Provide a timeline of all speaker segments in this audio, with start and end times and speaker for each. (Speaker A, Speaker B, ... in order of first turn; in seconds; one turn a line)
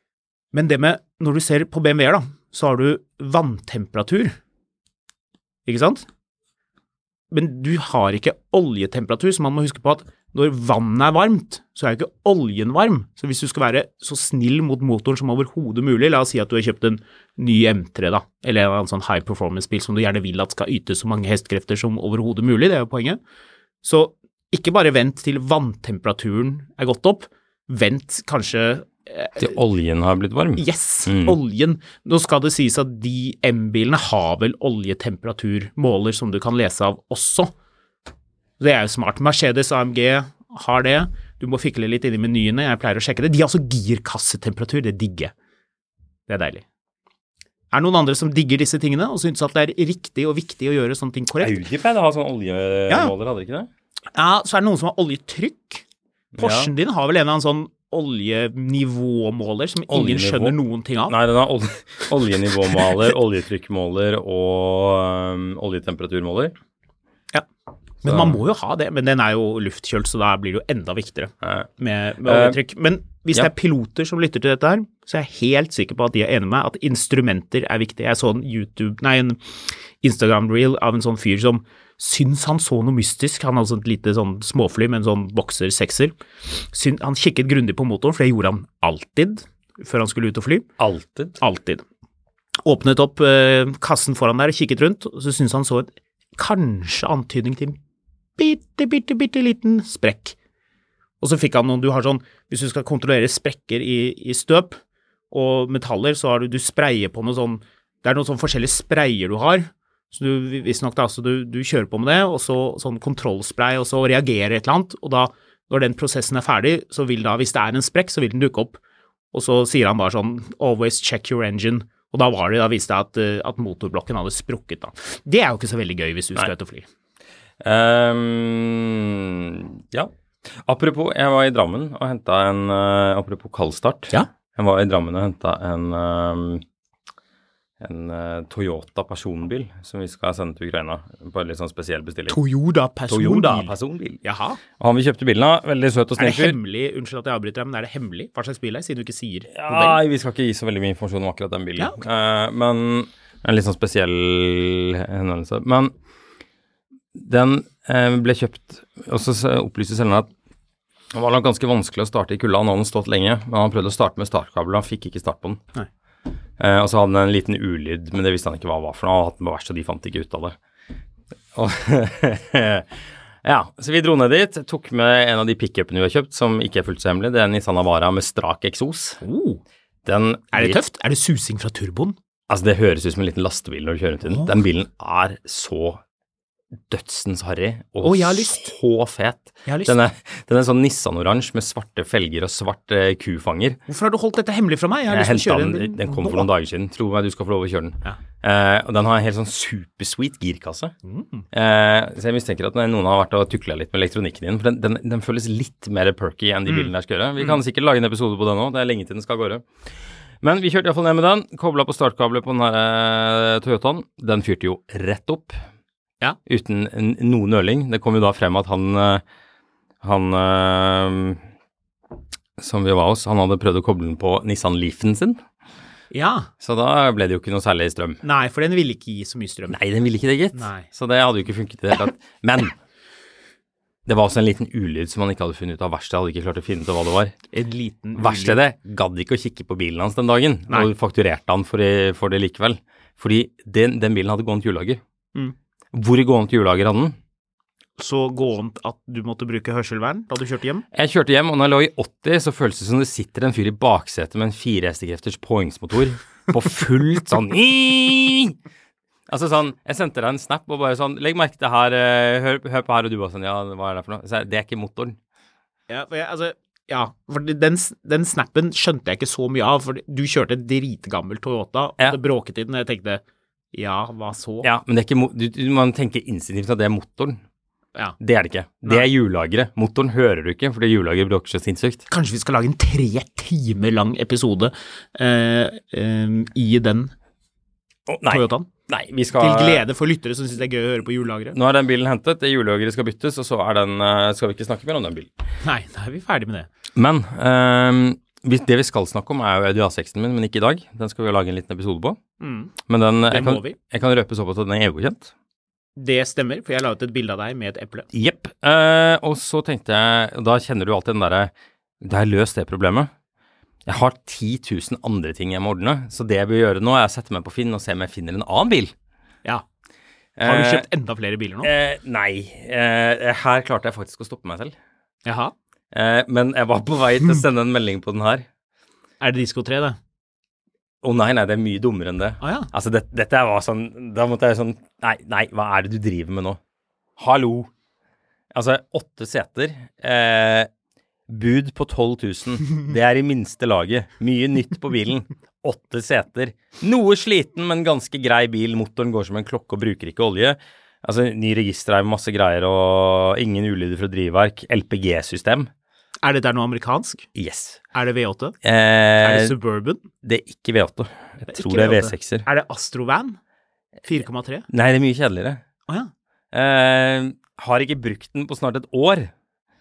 Speaker A: 0.5-4.3
Speaker A: 5.7-6.1
Speaker A: 7.3-23.2
Speaker A: 23.8-29.5
Speaker B: 29.4-31.4
Speaker A: 30.6-37.5
Speaker A: 38.6-45.3
Speaker A: 46.3-46.6
Speaker A: 47.7-51.6
Speaker B: 51.4-53.7
Speaker A: 54.1-55.8
Speaker B: 56.4-56.7
Speaker A: 56.4-61.1
Speaker B: 59.9-60.6
Speaker B: 61.1-66.5
Speaker A: 68.0-90.7
Speaker B: 68.0-68.4
Speaker B: 71.4-71.7
Speaker B: 72.2-72.6
Speaker B: 90.8-91.4
Speaker A: 91.4-91.8
Speaker A: 92.6-97.8
Speaker A: 98.4-100.3
Speaker A: 101.2-104.8
Speaker A: 105.3-118.8
Speaker A: 119.3-126.9
Speaker B: 127.6-136.6
Speaker B: 137.8-142.4
Speaker A: 142.3-143.7
Speaker B: 143.1-144.2
Speaker A: 144.2-144.6
Speaker B: 144.8-146.6
Speaker A: 146.2-150.0
Speaker B: 149.5-155.9
Speaker B: 157.2-160.3
Speaker B: 161.1-165.6
Speaker B: 166.6-170.6
Speaker B: 171.6-179.2
Speaker A: 179.2-179.6
Speaker B: 180.1-180.8
Speaker A: 180.5-182.2
Speaker B: 182.5-186.0
Speaker A: 184.3-184.6
Speaker B: 186.9-193.8
Speaker A: 188.0-188.7
Speaker A: 189.7-189.9
Speaker A: 193.9-196.5
Speaker B: 195.1-200.9
Speaker A: 201.0-201.4
Speaker B: 201.5-209.8
Speaker A: 206.7-207.6
Speaker B: 210.4-215.6
Speaker B: 216.5-219.2
Speaker B: 220.0-221.4
Speaker B: 222.6-225.4
Speaker A: 226.1-226.5
Speaker B: 226.6-228.2
Speaker A: 228.2-229.8
Speaker B: 229.7-232.8
Speaker A: 230.5-230.9
Speaker B: 234.1-237.3
Speaker A: 237.5-238.6
Speaker B: 238.2-245.0
Speaker B: 245.9-247.2
Speaker A: 248.0-250.8
Speaker B: 250.9-258.6
Speaker B: 259.3-265.2
Speaker A: 265.9-273.2
Speaker A: 273.7-274.7
Speaker B: 274.6-277.4
Speaker B: 278.2-282.1
Speaker A: 282.1-287.1
Speaker B: 288.1-289.8
Speaker A: 288.3-288.7
Speaker A: 289.4-291.6
Speaker B: 291.5-295.3
Speaker A: 295.6-296.7
Speaker B: 297.0-302.2
Speaker A: 302.4-302.7
Speaker B: 302.9-305.3
Speaker A: 303.3-303.8
Speaker A: 306.0-308.1
Speaker B: 308.1-311.5
Speaker B: 312.0-313.1
Speaker B: 313.9-318.9
Speaker B: 320.4-320.9
Speaker A: 320.4-321.7
Speaker B: 321.6-324.7
Speaker A: 325.2-325.5
Speaker B: 325.9-328.5
Speaker A: 329.2-330.0
Speaker B: 331.0-336.6
Speaker A: 332.4-332.7
Speaker B: 337.2-337.7
Speaker B: 338.5-340.7
Speaker B: 341.3-355.7
Speaker A: 356.2-357.3
Speaker B: 357.4-357.8
Speaker A: 357.9-358.6
Speaker B: 358.6-359.6
Speaker A: 359.2-360.0
Speaker B: 360.2-362.5
Speaker A: 361.5-363.4
Speaker A: 364.1-364.7
Speaker B: 364.7-365.6
Speaker B: 366.5-369.3